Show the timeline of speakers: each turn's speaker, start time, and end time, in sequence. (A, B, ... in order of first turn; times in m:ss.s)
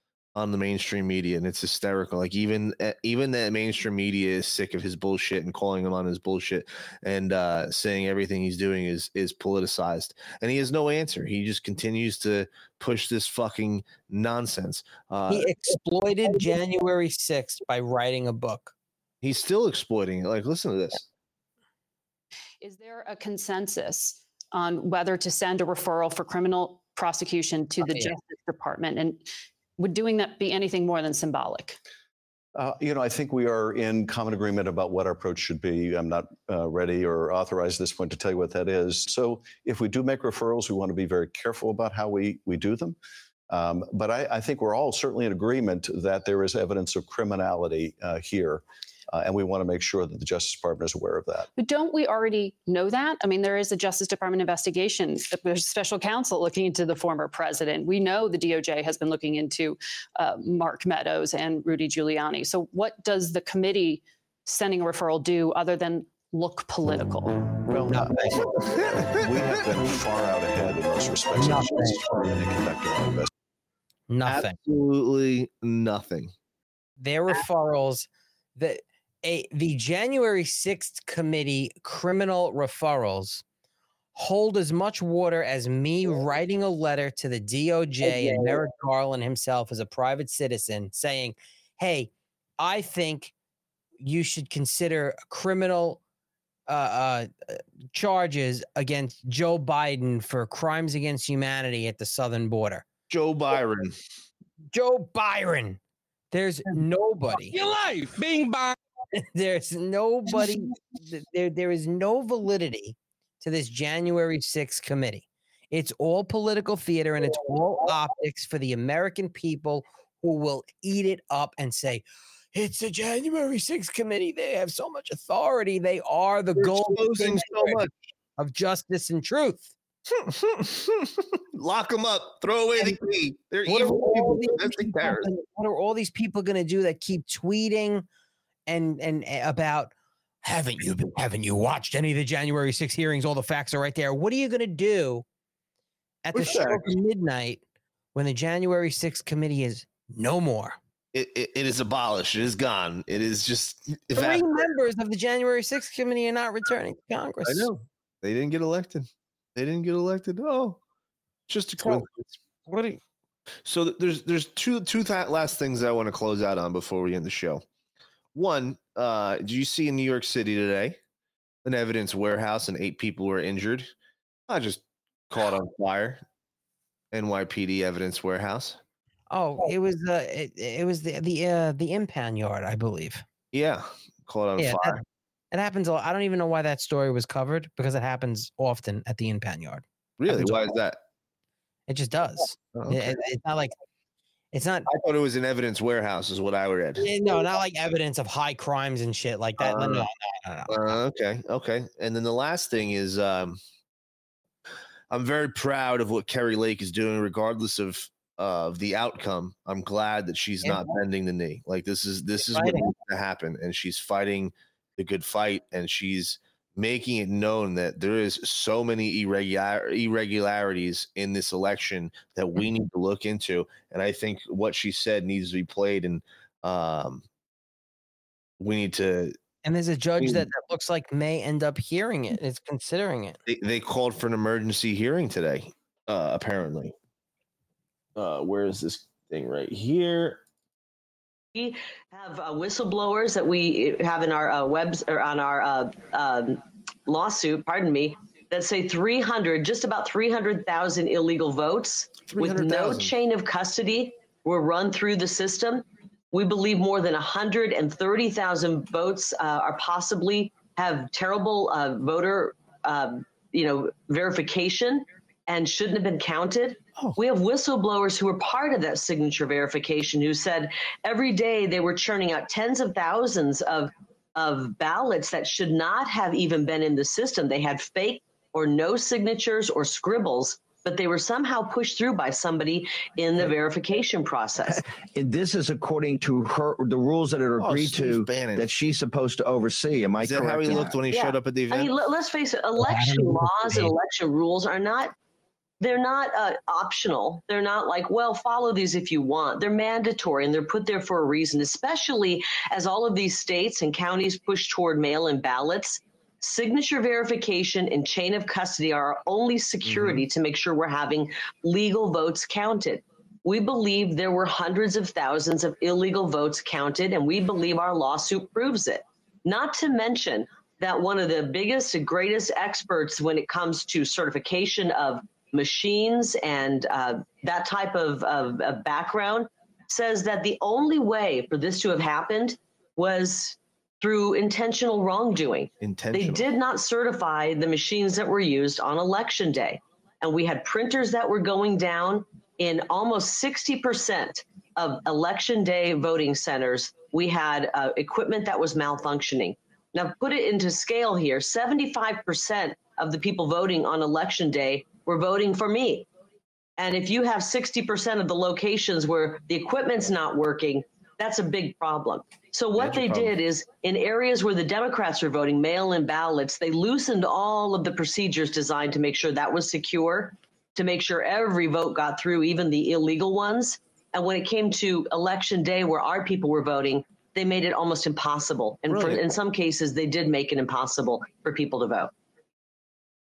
0:00.4-0:15.5 A
0:15.3-0:18.7 B
0:19.2-0:21.0 A
0:22.6-0:29.3 C
0:29.8-0:31.8 C
0:32.6-0:43.0 D
0:43.5-0:51.5 D
0:51.6-1:07.4 C
1:07.8-1:08.5 B
1:08.6-1:09.5 A
1:08.8-1:13.3 D
1:11.4-1:12.0 B
1:14.1-1:14.6 B
1:14.3-1:16.3 A
1:17.0-1:23.4 B
1:24.2-1:33.3 B
1:28.1-1:28.5 A
1:34.0-1:36.0 B
1:36.7-1:42.8 B
1:43.1-1:44.0 A
1:44.7-1:45.8 B
1:46.3-1:47.7 B
1:49.2-2:07.8 B
2:06.6-2:07.9 A
2:08.4-2:09.7 B
2:10.1-2:15.3 A
2:13.7-2:18.0 B
2:18.7-2:19.9 B
2:20.4-2:25.2 B
2:26.2-2:27.6 B
2:26.3-2:26.9 A
2:28.2-2:30.8 B
2:31.1-2:34.7 A
2:34.1-2:37.7 B
2:37.4-2:40.8 A
2:41.5-2:42.4 A
2:42.7-2:43.0 B
2:43.7-2:47.6 A
2:48.4-2:51.0 A
2:51.6-2:53.9 A
2:54.5-2:56.2 A
2:57.1-2:58.8 A
2:59.3-3:03.2 B
3:03.5-3:05.0 A
3:04.6-3:05.0 B
3:05.5-3:10.6 B
3:10.2-3:11.0 A
3:11.9-3:13.7 B
3:12.7-3:13.2 A
3:14.5-3:14.9 B
3:14.9-3:17.1 A
3:17.0-3:21.0 B
3:19.6-3:20.1 A
3:20.7-3:23.6 A
3:25.1-3:47.2 A
3:30.6-3:30.9 B
3:32.5-3:32.9 B
3:48.6-3:49.4 A
3:49.6-3:53.4 B
3:50.2-3:50.5 A
3:53.5-3:56.9 A
3:58.2-4:00.4 A
4:01.6-4:44.8 E
4:12.4-4:13.1 A
4:44.7-4:51.0 F
4:47.6-4:48.7 A
4:50.2-4:51.9 A
4:51.1-4:55.1 E
4:52.8-4:53.9 B
4:55.8-5:56.0 E
5:09.8-5:10.2 A
5:35.8-5:36.4 A
5:56.8-6:22.1 E
6:02.8-6:03.3 A
6:18.9-6:19.2 A